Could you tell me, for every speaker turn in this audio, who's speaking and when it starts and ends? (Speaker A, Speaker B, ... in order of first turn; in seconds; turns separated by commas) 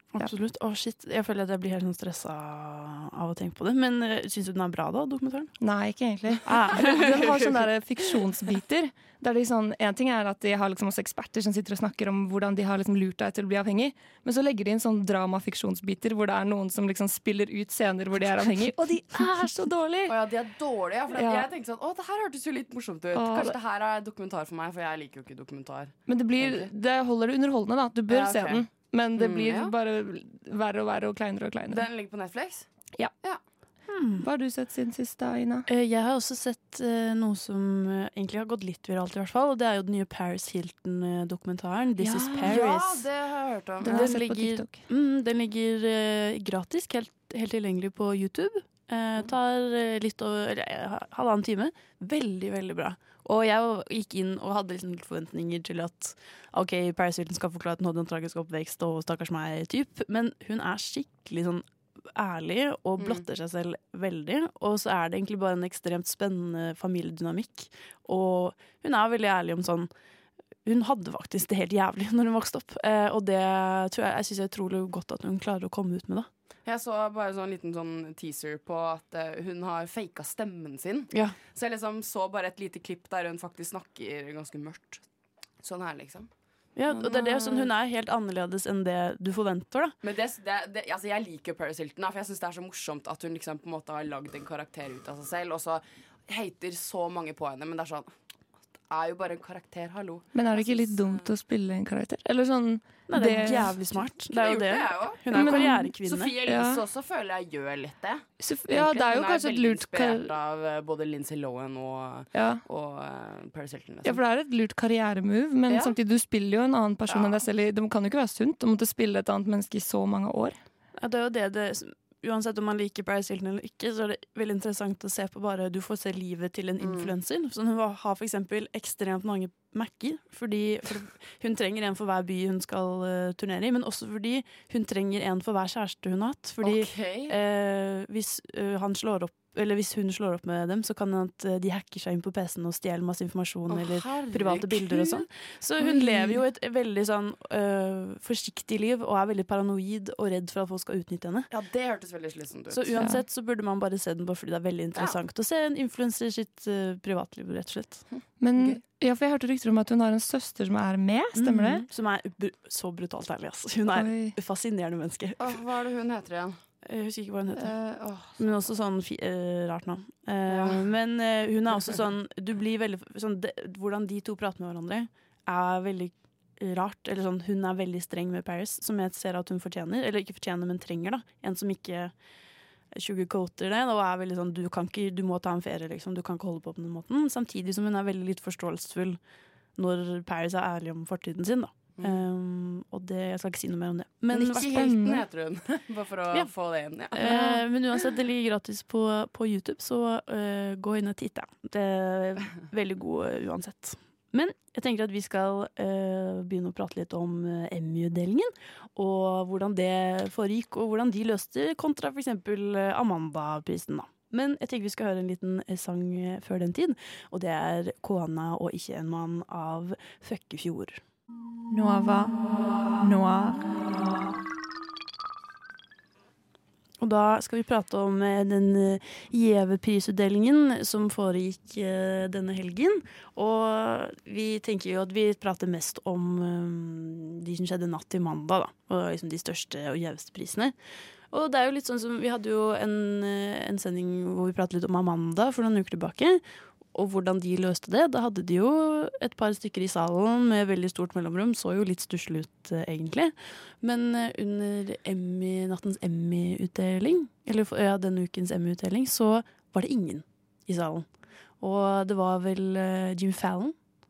Speaker A: 0.1-5.5, Speaker B: 5.6-20.1, Speaker A: 6.5-7.4, Speaker C: 20.1-26.7, Speaker B: 21.1-21.4, Speaker B: 23.1-23.6, Speaker B: 26.1-31.9, Speaker C: 28.1-28.6, Speaker C: 29.2-29.7, Speaker C: 31.7-32.7, Speaker A: 33.9-34.3, Speaker B: 34.2-35.7, Speaker A: 35.7-43.1, Speaker B: 42.0-42.6, Speaker C: 42.3-44.1, Speaker B: 43.8-44.8, Speaker A: 43.9-69.9, Speaker C: 63.0-63.2, Speaker A: 70.7-76.3, Speaker C: 76.7-85.0, Speaker C: 85.6-86.3, Speaker A: 86.8-90.0, Speaker C: 86.9-87.7, Speaker C: 90.0-98.1, Speaker C: 98.9-101.3, Speaker B: 100.3-103.7, Speaker A: 103.1-106.3, Speaker C: 104.2-105.5, Speaker B: 105.3-105.9, Speaker C: 106.0-114.2, Speaker B: 106.5-106.8, Speaker B: 108.4-110.3, Speaker B: 112.3-112.6, Speaker B: 114.0-120.5, Speaker C: 115.7-116.0, Speaker A: 121.0-151.5, Speaker C: 126.8-127.1, Speaker C: 136.6-137.3, Speaker C: 143.7-145.2, Speaker B: 145.8-146.4, Speaker C: 151.5-152.9, Speaker A: 152.7-158.0, Speaker B: 158.4-161.8, Speaker A: 161.4-165.6, Speaker B: 163.9-164.3, Speaker C: 165.4-166.6, Speaker A: 166.8-167.7, Speaker C: 167.6-168.5, Speaker A: 168.4-182.1, Speaker C: 170.5-170.8, Speaker A: 182.9-189.2, Speaker A: 189.8-195.1, Speaker C: 194.3-197.6, Speaker B: 194.8-195.1, Speaker A: 197.1-221.0, Speaker B: 221.7-222.4, Speaker B: 223.0-223.7, Speaker A: 227.0-240.8, Speaker A: 241.3-246.4, Speaker A: 246.9-261.1, Speaker A: 261.6-263.8